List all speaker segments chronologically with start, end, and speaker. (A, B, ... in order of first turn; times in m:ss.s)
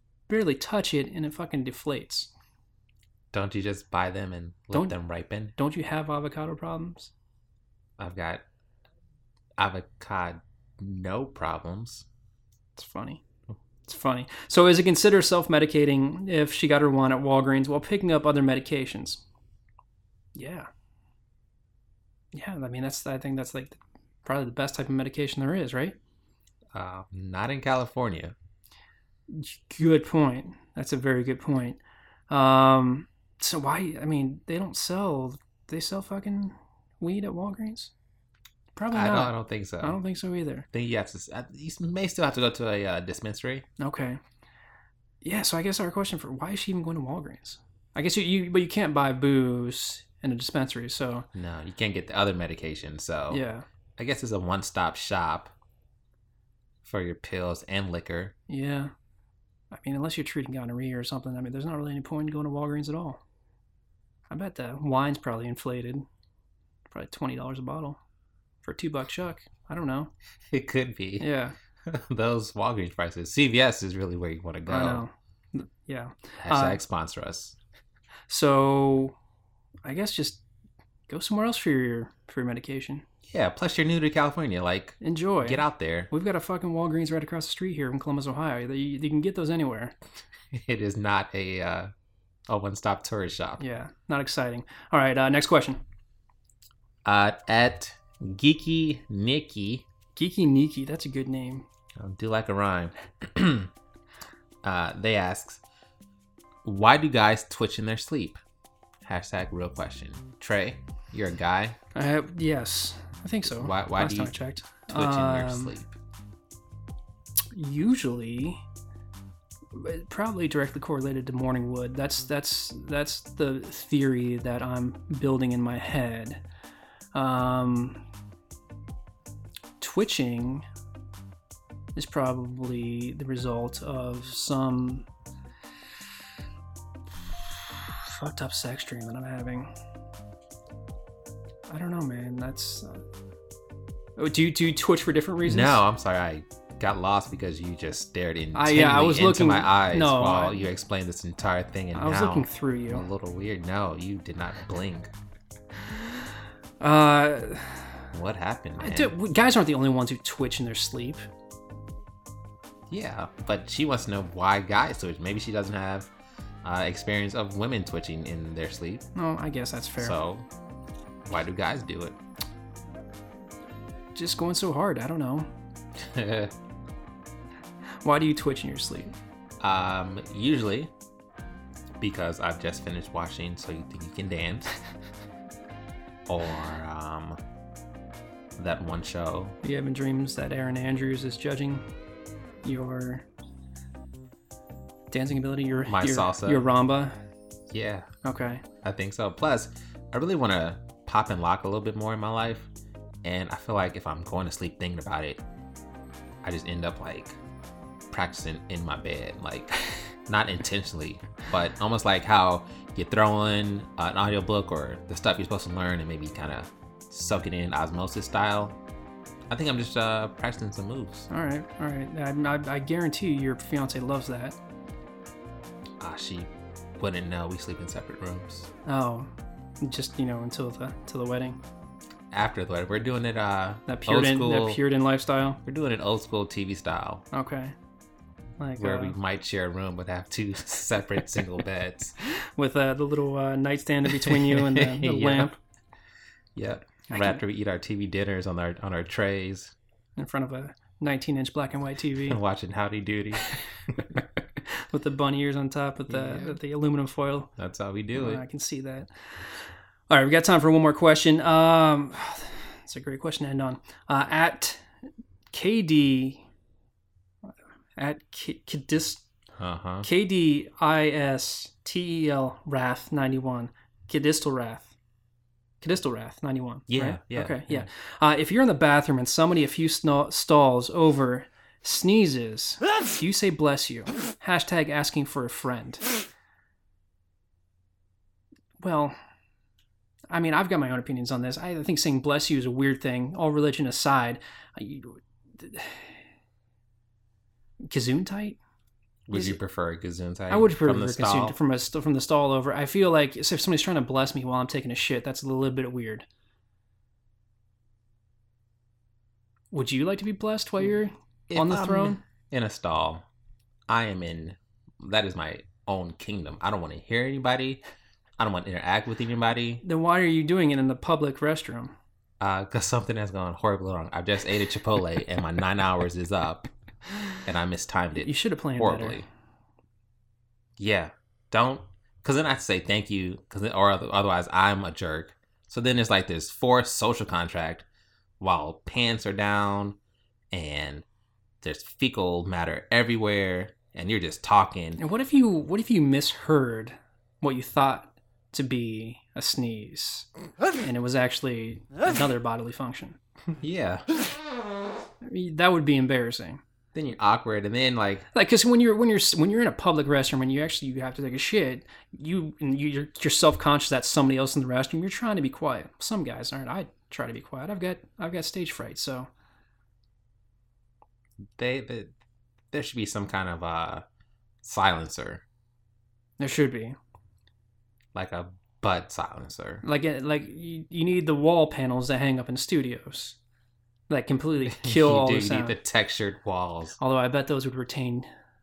0:00.3-0:02.3 A
0:03.3-0:05.5 B
0:05.6-0:07.1 A
0:08.0-0:08.4 B
0:09.6-0:12.1 B
0:12.8-0:13.2 A
0:13.8-0:19.2 A
0:20.4-0:20.7 A
0:22.3-0:26.0 A
0:26.7-0:28.4 B
0:29.3-0:31.8 A
0:32.3-0:37.9 A
0:38.8-0:40.7 A
0:38.9-0:40.0 B
0:40.7-0:43.7 B
0:43.8-0:44.2 A
0:45.2-0:51.3 A
0:51.3-0:53.4 B
0:53.3-0:53.6 A
0:54.0-0:55.5 B
0:56.8-0:58.4 B
0:58.5-0:58.9 A
0:59.7-1:03.2 A
1:04.3-1:06.0 A
1:06.9-1:08.0 A
1:08.6-1:10.1 A
1:10.5-1:11.3 B
1:11.2-1:11.6 A
1:11.9-1:15.1 B
1:14.7-1:16.8 A
1:16.4-1:17.6 B
1:18.3-1:19.2 A
1:19.8-1:20.4 A
1:21.1-1:23.0 A
1:23.3-1:26.1 B
1:25.0-1:30.0 A
1:30.5-1:31.9 B
1:32.5-1:33.6 B
1:33.6-1:35.8 A
1:37.0-1:39.8 B
1:40.2-1:41.7 A
1:42.0-1:43.7 B
1:44.6-1:45.6 B
1:46.6-1:48.4 B
1:49.0-1:51.8 B
1:52.0-1:55.7 A
1:53.4-1:54.4 B
1:54.9-1:55.9 B
1:57.5-1:58.6 A
1:59.7-2:06.4 A
2:07.1-2:08.0 A
2:09.8-2:10.7 A
2:12.0-2:15.1 A
2:17.7-2:19.7 A
2:21.7-2:23.0 A
2:24.2-2:25.8 A
2:25.4-2:35.1 B
2:28.6-2:30.6 A
2:31.9-2:33.0 A
2:36.8-2:37.9 A
2:38.1-2:39.1 B
2:38.8-2:41.2 A
2:42.9-2:46.1 B
2:46.6-2:49.1 B
2:49.2-2:50.2 A
2:50.0-2:50.5 B
2:51.2-2:52.2 B
2:54.2-2:55.5 A
2:56.0-2:56.5 B
2:58.0-2:59.1 A
2:59.6-3:00.9 B
3:02.0-3:04.7 B
3:06.3-3:07.4 B
3:08.6-3:09.6 B
3:09.6-3:11.8 A
3:12.6-3:13.3 A
3:15.1-3:17.2 A
3:15.9-3:16.7 B
3:17.7-3:18.1 B
3:18.2-3:18.6 A
3:18.8-3:22.7 B
3:23.2-3:25.4 B
3:26.4-3:27.4 B
3:28.1-3:38.8 B
3:39.5-3:41.3 B
3:41.3-3:44.6 A
3:46.0-3:48.7 B
3:48.8-3:49.3 A
3:49.8-3:51.6 A
3:52.3-3:54.8 B
3:53.9-3:55.6 A
3:55.6-3:57.2 B
3:57.3-3:57.8 A
3:58.6-3:59.2 A
3:58.8-4:02.2 B
4:02.6-4:05.6 A
4:04.1-4:05.5 B
4:06.6-4:09.7 B
4:07.1-4:07.4 A
4:10.2-4:12.4 A
4:12.2-4:13.6 B
4:14.7-4:17.5 A
4:16.1-4:16.6 B
4:17.6-4:18.4 B
4:18.1-4:19.1 A
4:20.1-4:24.8 A
4:25.5-4:26.4 A
4:28.0-4:29.2 A
4:29.6-4:30.1 B
4:30.0-4:34.9 A
4:35.8-4:46.1 A
4:36.9-4:37.9 B
4:48.8-4:49.2 A
4:50.3-4:56.1 A
4:57.9-4:58.6 A
4:59.3-5:01.6 B
4:59.3-4:59.6 A
5:00.5-5:06.3 A
5:09.7-5:12.2 A
5:11.5-5:13.2 B
5:13.9-5:17.8 B
5:18.4-5:19.8 B
5:19.8-5:22.0 A
5:22.4-5:26.7 B
5:27.4-5:29.3 B
5:28.2-5:29.2 A
5:30.8-5:37.9 B
5:38.4-5:40.0 B
5:40.5-5:41.0 B
5:41.6-5:45.0 B
5:45.0-5:50.3 A
5:50.8-5:53.2 A
5:53.6-5:54.2 B
5:55.2-5:56.6 A
5:56.9-5:58.3 B
5:58.3-6:09.3 A
6:11.6-6:12.1 B
6:12.7-6:14.0 B
6:14.6-6:15.4 B
6:16.4-6:17.0 A
6:18.1-6:19.8 B
6:19.8-6:23.4 A
6:24.1-6:25.8 A
6:24.7-6:27.0 B
6:27.0-6:28.3 A